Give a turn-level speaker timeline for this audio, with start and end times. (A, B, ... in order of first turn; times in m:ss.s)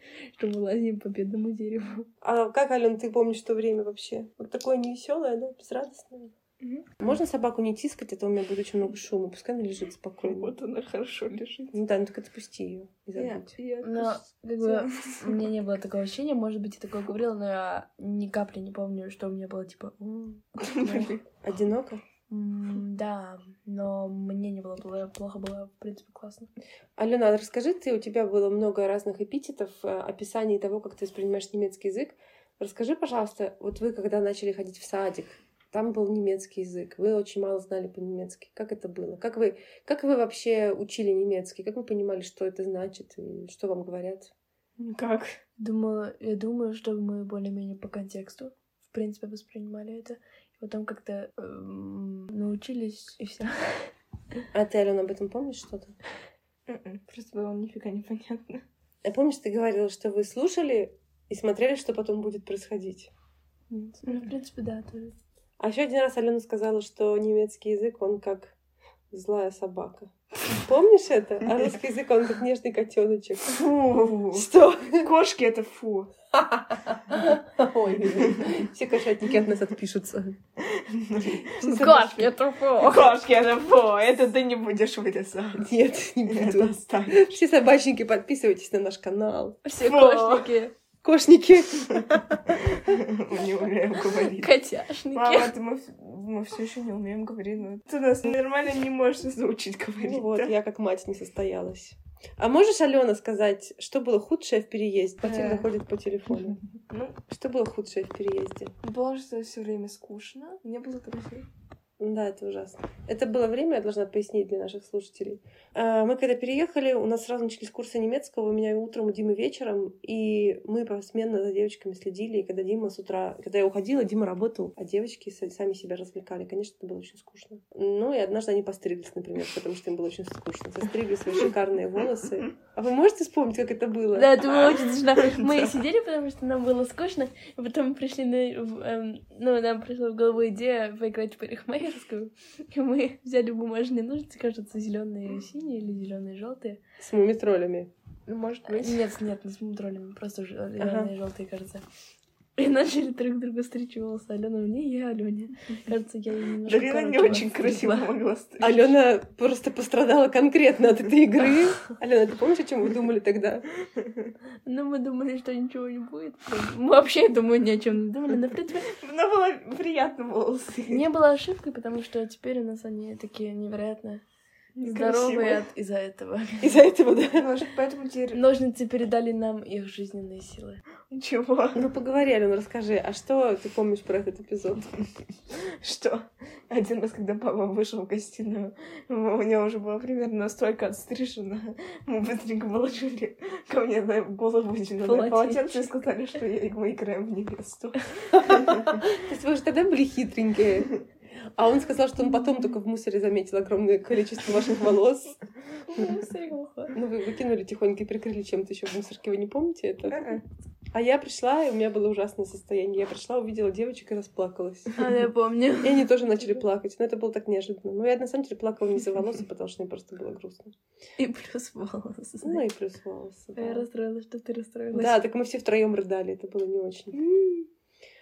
0:00.4-0:02.1 A
0:02.2-0:06.3 B
0:06.6-0:06.9 C
0:07.0-0:10.5 B
0:10.2-0:11.7 C
0:11.7-0:13.5 B
0:13.2-0:15.5 C
0:13.8-0:21.1 A
0:20.6-0:21.2 C
0:21.4-0:22.0 B
0:22.3-0:26.5 A
0:27.0-0:44.3 B
0:44.8-0:45.4 C
0:45.6-0:53.6 A
0:54.5-0:55.9 B
0:56.7-0:58.6 C
0:59.0-1:03.1 B
1:03.7-1:05.2 A
1:05.6-1:08.5 B
1:09.1-1:13.6 B
1:13.5-1:16.1 C
1:14.3-1:15.1 B
1:16.3-1:20.4 B
1:20.6-1:21.9 C
1:21.2-1:22.3 B
1:21.6-1:23.1 A
1:22.8-1:25.7 C
1:25.6-1:29.6 B
1:26.2-1:27.3 C
1:29.6-1:30.7 A
1:29.8-1:30.5 C
1:31.0-1:32.9 B
1:31.9-1:34.5 C
1:34.0-1:35.5 A
1:35.1-1:40.5 C
1:40.0-1:46.6 B
1:45.2-1:45.7 C
1:46.9-1:47.2 C
1:47.3-1:48.7 B
1:48.8-1:51.5 C
1:52.0-2:14.4 B
2:14.1-2:26.8 A
2:14.5-2:15.7 C
2:27.0-2:27.9 B
2:28.3-2:29.0 C
2:28.7-2:31.8 A
2:30.8-2:31.1 B
2:32.6-2:38.1 A
2:36.6-2:38.9 C
2:38.6-2:43.6 B
2:44.0-2:44.3 C
2:44.6-2:48.9 A
2:48.8-2:51.0 C
2:50.8-2:54.2 A
2:54.8-2:55.6 C
2:54.8-2:56.8 A
2:56.6-2:57.5 B
2:57.3-2:58.4 C
2:58.3-3:00.8 A
3:01.1-3:01.8 C
3:01.7-3:04.9 B
3:05.5-3:19.0 C
3:15.0-3:15.9 A
3:18.3-3:20.9 B
3:21.4-3:25.4 B
3:25.9-3:26.9 A
3:26.9-3:30.4 B
3:30.1-3:30.4 C
3:30.9-3:35.1 B
3:35.0-3:36.6 A
3:35.8-3:40.7 B
3:41.2-3:42.6 A
3:42.4-3:43.9 B
3:43.6-3:45.2 A
3:44.9-3:47.2 B
3:47.1-3:47.7 A